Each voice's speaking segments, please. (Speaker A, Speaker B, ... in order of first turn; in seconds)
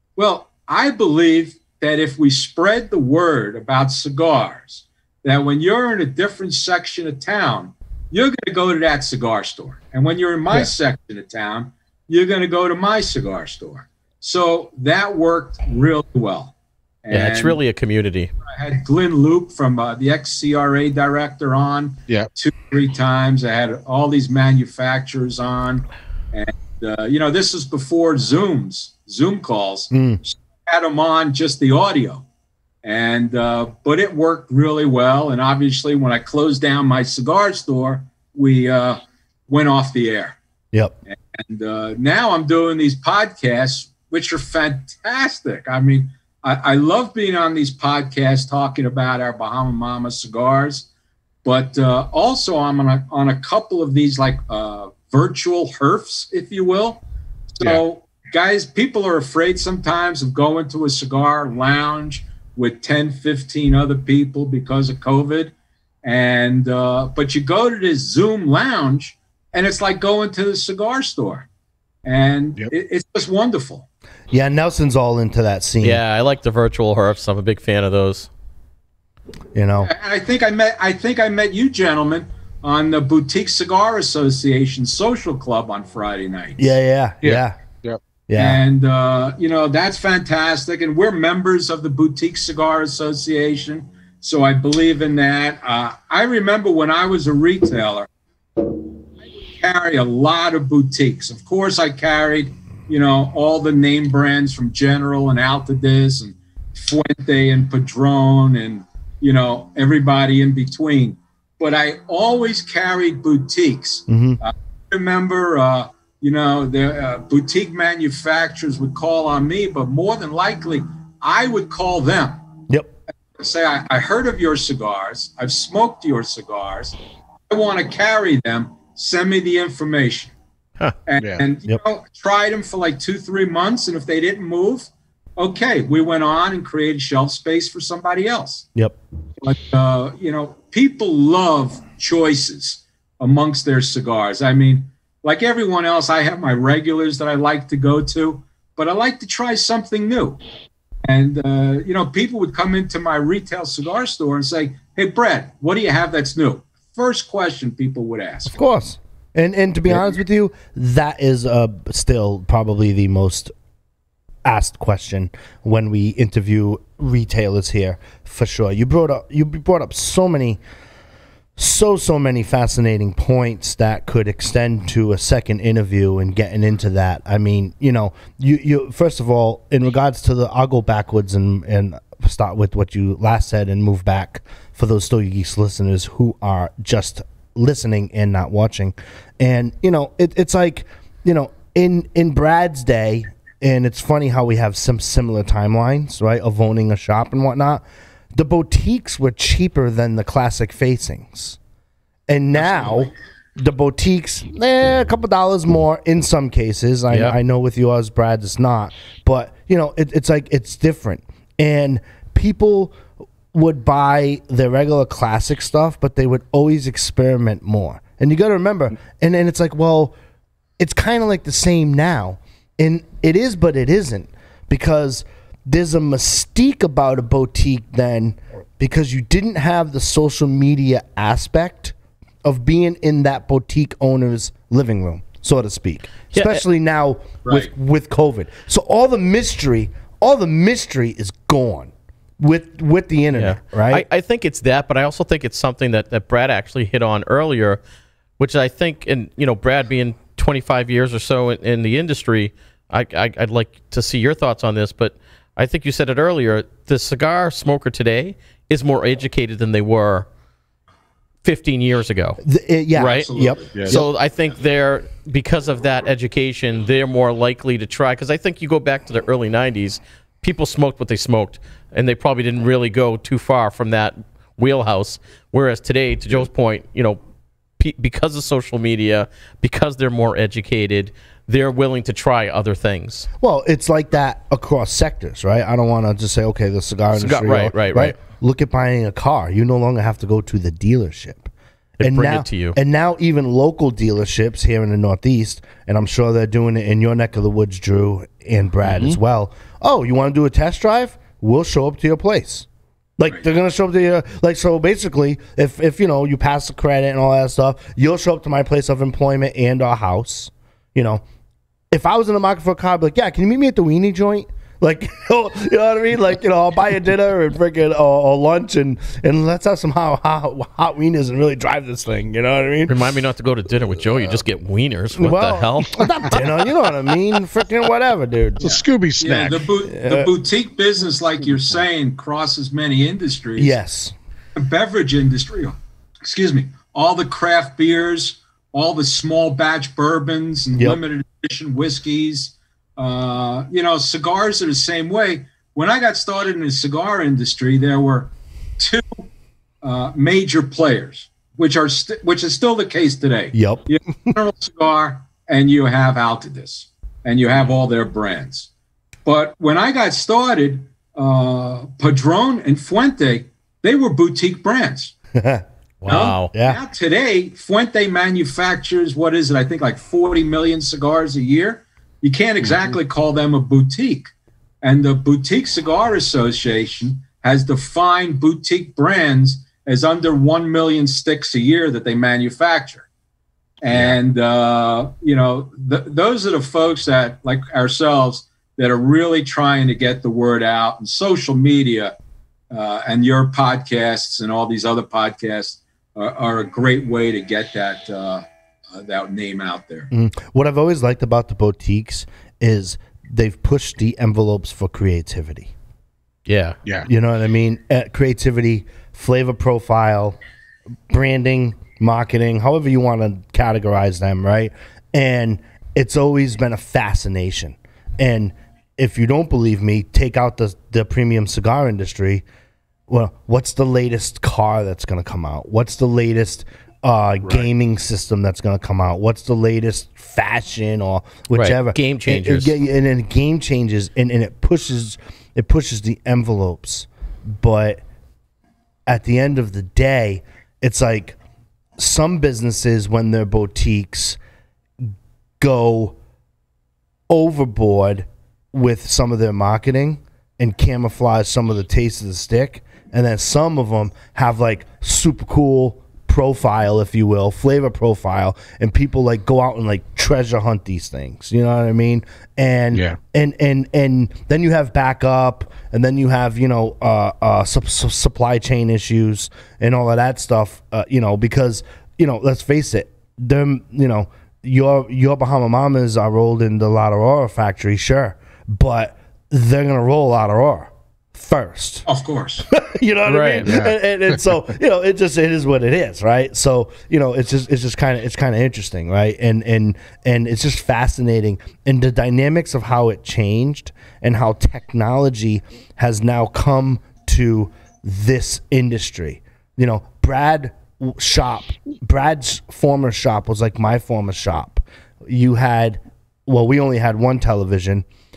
Speaker A: 0.2-17.6, 18.5-32.2, 32.8-40.4, 41.1-50.9, 51.4-57.0, 57.5-65.5, 66.0-71.5, 72.0-73.9, 79.8-86.7, 88.4-98.1, 99.5-122.4, 123.4-127.0, 127.5-130.3, 131.1-138.7, 139.4-150.4, 151.0-158.6, 237.4-237.7, 263.2-263.9, 329.2-333.8, 334.6-349.2, 349.8-358.7, 359.2-365.1, 366.1-374.3, 374.8-383.1, 383.8-392.1, 392.7-400.1, 482.1-482.7
Speaker B: 17.1-18.3, 75.8-78.3, 236.3-236.6, 243.3-247.8, 248.4-260.3, 261.4-262.4, 262.9-263.3, 263.8-277.2, 277.8-283.3, 287.2-288.2, 292.0-292.8, 322.9-326.1, 366.0-366.5, 406.5-406.8, 431.5-432.7, 483.2-483.8
Speaker C: 29.9-30.2, 74.3-76.0, 79.5-79.9, 86.6-87.6, 88.3-88.6, 114.1-114.4, 158.5-163.5, 164.4-170.6, 171.6-201.6, 202.3-213.0, 213.5-220.1, 220.8-244.0, 262.4-264.1, 283.4-302.7, 303.2-311.2, 311.9-323.1, 325.1-328.8, 329.9-330.3, 333.6-334.1, 353.5-354.3, 365.3-366.8, 400.1-405.7, 407.0-410.4, 411.1-422.4, 423.1-438.0, 439.1-441.4, 442.0-444.4, 445.0-446.2, 447.3-482.1, 482.7-508.1
Speaker D: 87.2-88.0, 131.2-131.4, 263.7-264.0, 328.6-329.7, 462.9-463.2, 483.6-483.9